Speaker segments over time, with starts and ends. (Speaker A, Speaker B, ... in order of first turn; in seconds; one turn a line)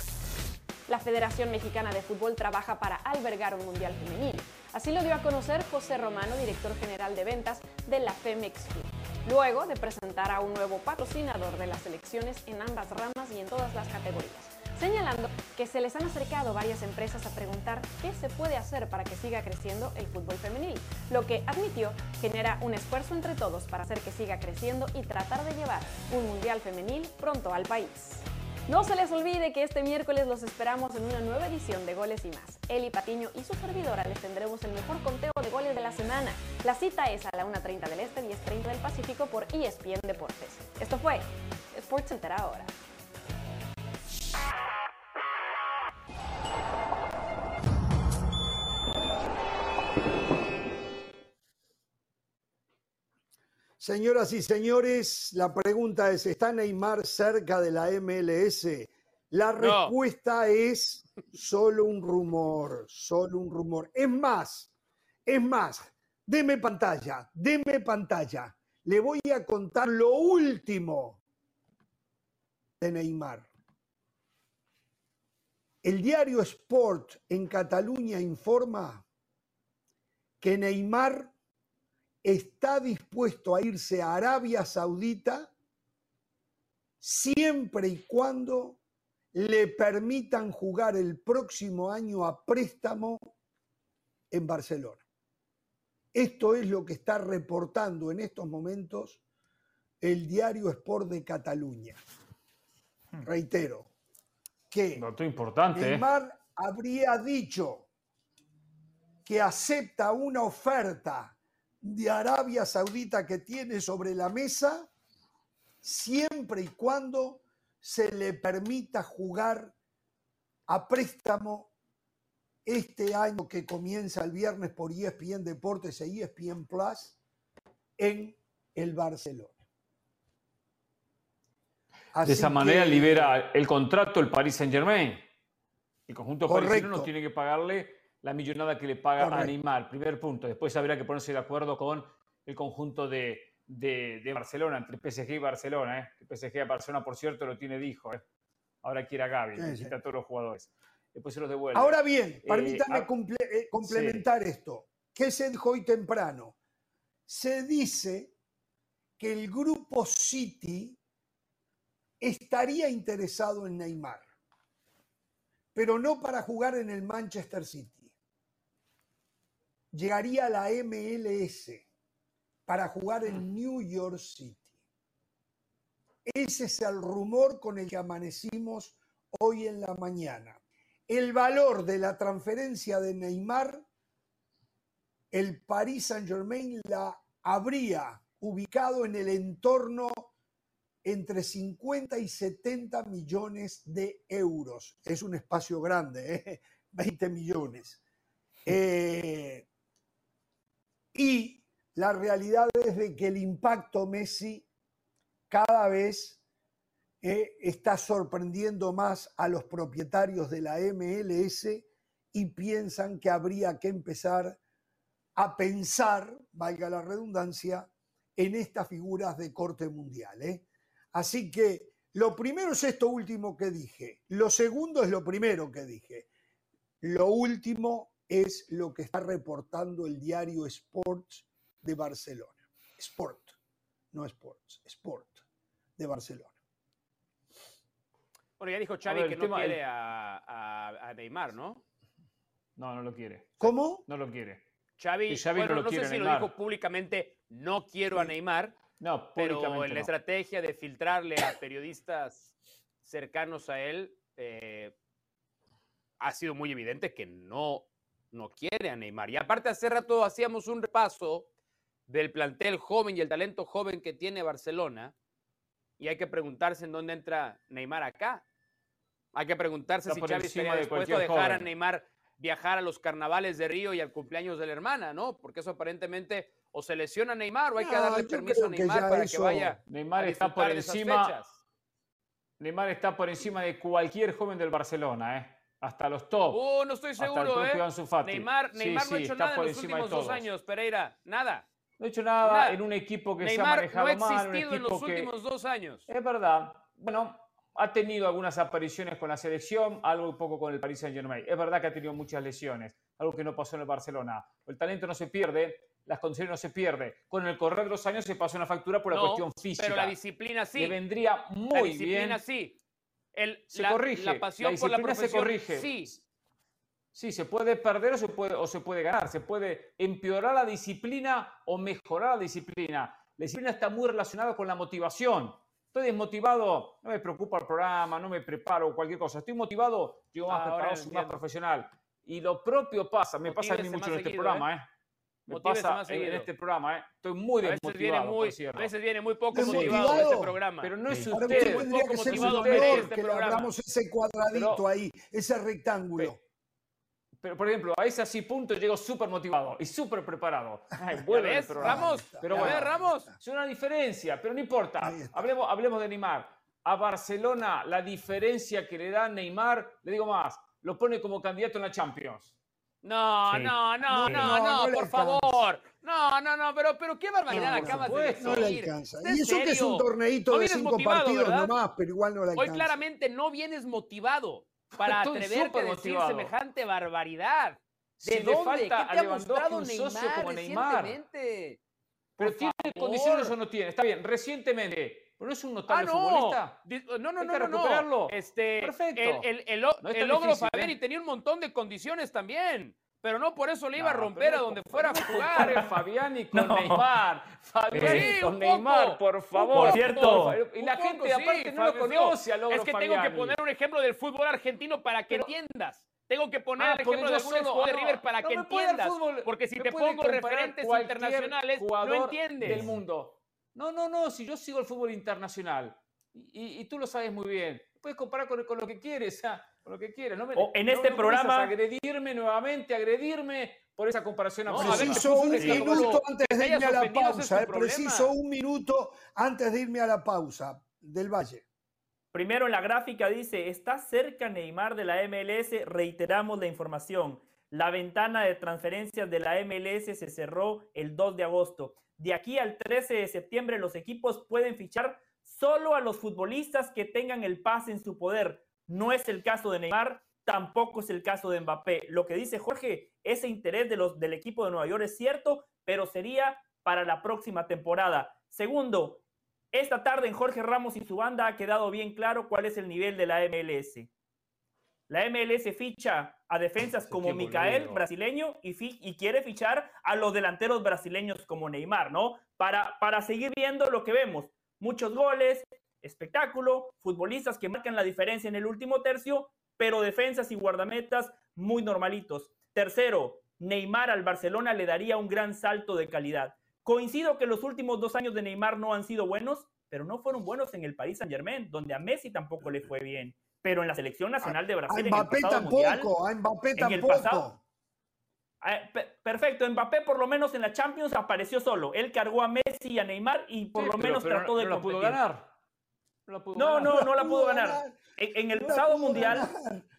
Speaker A: 0.9-42.7
Speaker B: 53.8-64.7
Speaker C: 59.6-59.9
Speaker B: 65.2-71.2
Speaker B: 72.8-73.5
Speaker B: 75.8-79.0
Speaker B: 80.4-81.3
Speaker B: 82.2-85.5
Speaker B: 87.0-88.8
Speaker B: 89.3-93.3
Speaker B: 94.3-95.0
Speaker B: 96.1-99.2
Speaker B: 100.0-102.0
Speaker B: 103.2-103.9
Speaker B: 104.7-105.0
Speaker D: 105.0-106.0
Speaker B: 105.7-107.9
Speaker B: 109.2-114.9
Speaker B: 115.8-119.7
Speaker B: 120.7-121.7
Speaker B: 122.6-127.2
Speaker B: 128.0-129.6
Speaker B: 132.1-133.3
Speaker D: 132.2-135.2
Speaker D: 136.1-148.2
Speaker B: 136.5-137.1
Speaker B: 139.2-139.5
Speaker D: 148.8-153.1
Speaker B: 149.5-149.9
Speaker B: 151.7-156.5
Speaker D: 153.8-154.2
Speaker B: 157.3-158.3
Speaker B: 159.2-161.0
Speaker B: 162.2-164.2
Speaker B: 165.7-168.1
Speaker B: 169.9-171.8
Speaker B: 172.7-174.7
Speaker B: 176.2-183.8
Speaker B: 185.3-190.3
Speaker B: 191.0-198.0
Speaker B: 198.7-199.7
Speaker B: 201.1-204.7
Speaker B: 205.5-206.4
Speaker B: 207.2-214.6
Speaker B: 215.3-226.3
Speaker B: 227.0-233.6
Speaker B: 234.1-235.4
Speaker B: 236.0-236.5
Speaker C: 238.6-241.8
Speaker D: 239.0-239.8
Speaker D: 242.8-244.6
Speaker B: 243.6-244.0
Speaker C: 245.0-248.8
Speaker D: 245.3-246.5
Speaker D: 249.0-250.1
Speaker C: 249.4-254.9
Speaker C: 256.2-261.5
Speaker C: 262.1-265.1
Speaker C: 266.0-268.4
Speaker C: 269.3-281.6
Speaker D: 270.1-271.7
Speaker B: 277.8-279.8
Speaker D: 279.9-281.4
Speaker D: 282.6-286.6
Speaker C: 286.5-291.7
Speaker D: 287.2-290.5
Speaker D: 292.0-295.3
Speaker C: 292.4-292.8
Speaker C: 293.4-296.0
Speaker D: 296.1-310.1
Speaker C: 309.1-311.0
Speaker D: 310.8-312.4
Speaker C: 311.7-312.8
Speaker C: 313.3-316.1
Speaker D: 313.7-316.2
Speaker D: 317.1-334.9
Speaker C: 330.5-331.4
Speaker C: 333.5-334.6
Speaker D: 335.4-338.9
Speaker C: 335.5-336.5
Speaker C: 337.6-343.7
Speaker B: 339.5-340.6
Speaker D: 339.5-343.1
Speaker B: 341.3-346.4
Speaker D: 344.5-344.8
Speaker D: 347.4-362.5
Speaker C: 351.3-353.3
Speaker B: 351.8-353.3
Speaker B: 355.0-355.5
Speaker C: 363.0-371.7
Speaker B: 364.0-365.6
Speaker E: 364.2-364.5
Speaker B: 367.5-373.0
Speaker D: 367.5-368.8
Speaker C: 372.6-381.8
Speaker D: 375.0-376.5
Speaker D: 378.2-381.2
Speaker D: 382.4-386.8
Speaker C: 382.4-383.5
Speaker C: 385.9-395.8
Speaker D: 387.4-389.5
Speaker D: 390.0-390.9
Speaker D: 393.9-403.6
Speaker E: 395.6-395.9
Speaker E: 396.5-397.0
Speaker C: 397.9-412.9
Speaker E: 399.7-400.6
Speaker D: 406.8-426.1
Speaker E: 420.5-421.7
Speaker C: 424.7-428.3
Speaker B: 424.7-431.6
Speaker E: 432.3-464.1
Speaker E: 465.1-496.1
Speaker D: 467.1-468.0
Speaker B: 494.4-497.6
Speaker E: 496.8-497.5
Speaker E: 498.6-505.2
Speaker D: 503.7-505.5
Speaker D: 506.3-507.0
Speaker E: 506.5-509.5
Speaker B: 506.8-508.0
Speaker B: 508.5-509.9